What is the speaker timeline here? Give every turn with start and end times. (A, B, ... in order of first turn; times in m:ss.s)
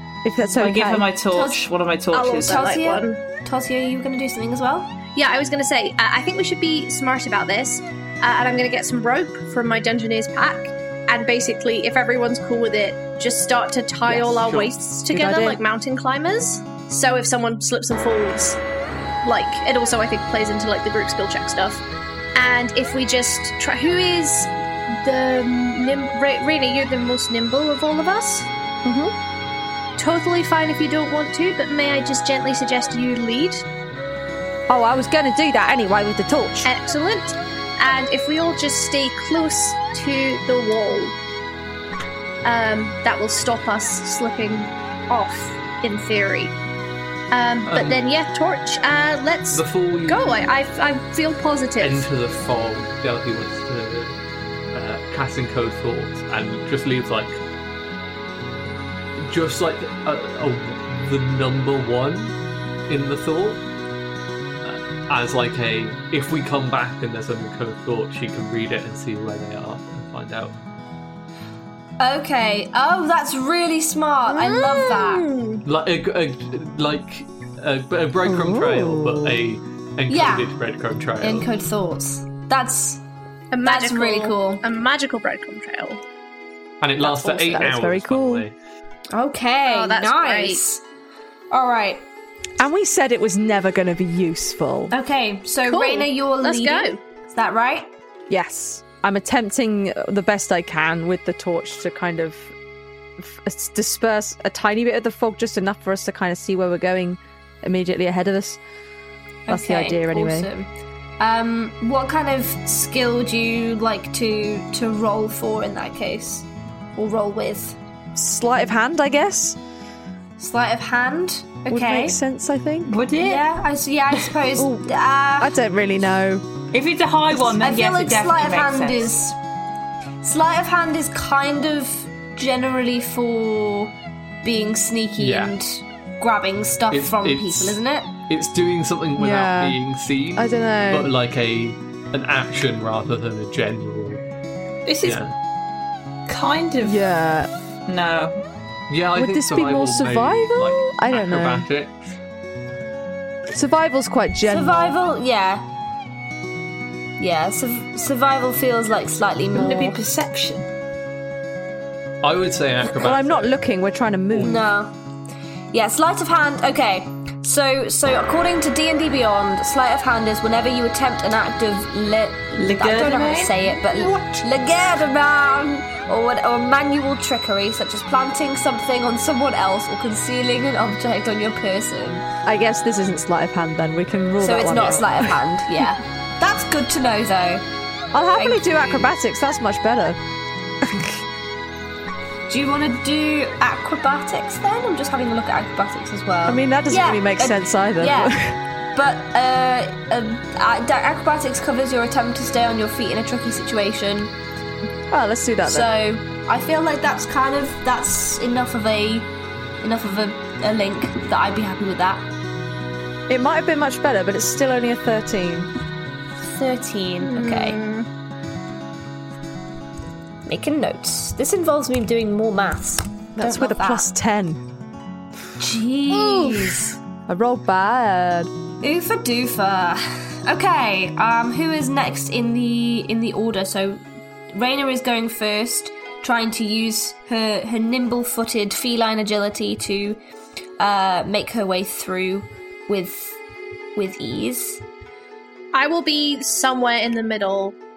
0:00.2-0:01.1 A
0:00.5-0:02.6 B
0:01.3-0:01.6 C
0:02.1-0:03.2 D
0:02.4-0:04.9 C
0:05.1-0:18.6 D
0:14.1-0:14.5 A
0:15.1-0:15.6 A
0:19.2-0:21.8 D
0:22.3-0:28.5 D
0:28.8-0:29.1 A
0:30.0-0:33.6 D
0:34.7-0:36.7 A
0:36.6-0:41.1 D
0:42.4-0:46.5 D
0:47.3-0:52.0 D
0:47.6-0:48.0 E
0:49.5-0:50.5 E
0:51.8-0:54.2 E
0:54.7-0:57.4 E
0:59.2-1:02.3 E
1:02.9-1:03.6 E
1:04.6-1:10.5 E
1:12.0-1:15.3 C
1:14.3-1:15.6 D
1:15.6-1:21.5 E
1:18.2-1:19.4 A
1:20.1-1:20.5 C
1:21.2-1:23.0 C
1:23.5-1:26.0 D
1:23.6-1:24.6 C
1:26.8-1:28.5 E
1:27.0-1:28.4 A
1:29.1-1:30.8 C
1:29.6-1:30.6 D
1:31.5-1:32.0 C
1:32.6-1:34.9 A
1:34.9-1:37.9 C
1:35.6-1:37.0 D
1:38.3-1:42.5 A
1:43.2-1:48.6 A
1:49.4-1:50.7 C
1:49.5-1:50.5 A
1:51.2-1:57.8 C
1:58.1-1:59.6 A
2:00.4-2:02.2 C
2:01.7-2:02.9 A
2:02.9-2:03.4 B
2:03.2-2:05.5 C
2:04.6-2:06.4 A
2:06.7-2:09.1 B
2:07.6-2:09.4 C
2:10.2-2:18.1 C
2:15.2-2:15.5 E
2:16.9-2:24.2 E
2:19.2-2:19.8 A
2:20.4-2:21.1 A
2:24.8-2:25.2 B
2:25.0-2:25.3 E
2:26.3-2:27.1 B
2:26.8-2:27.5 A
2:27.9-2:28.4 B
2:28.9-2:31.9 E
2:29.1-2:31.6 A
2:33.5-2:34.9 A
2:34.4-2:35.6 C
2:37.2-2:40.0 C
2:39.5-2:40.7 B
2:42.2-2:43.5 E
2:42.8-2:44.6 A
2:44.4-2:44.9 C
2:45.7-3:02.2 C
2:52.6-2:54.4 B
3:02.4-3:05.4 A
3:04.4-3:07.6 C
3:08.1-3:10.2 A
3:08.3-3:09.1 C
3:10.8-3:11.2 A
3:12.5-3:18.4 C
3:16.4-3:18.6 A
3:18.9-3:24.3 C
3:25.1-3:25.9 A
3:25.6-3:32.2 C
3:33.3-3:35.7 A
3:36.4-3:37.8 C
3:37.2-3:38.1 D
3:40.4-3:44.1 C
3:43.4-3:44.6 A
3:45.6-3:46.9 C
3:46.1-3:46.9 D
3:47.3-3:48.5 A
3:48.8-4:00.2 C
4:00.8-4:03.4 C
4:03.9-4:04.8 C
4:05.7-4:07.8 D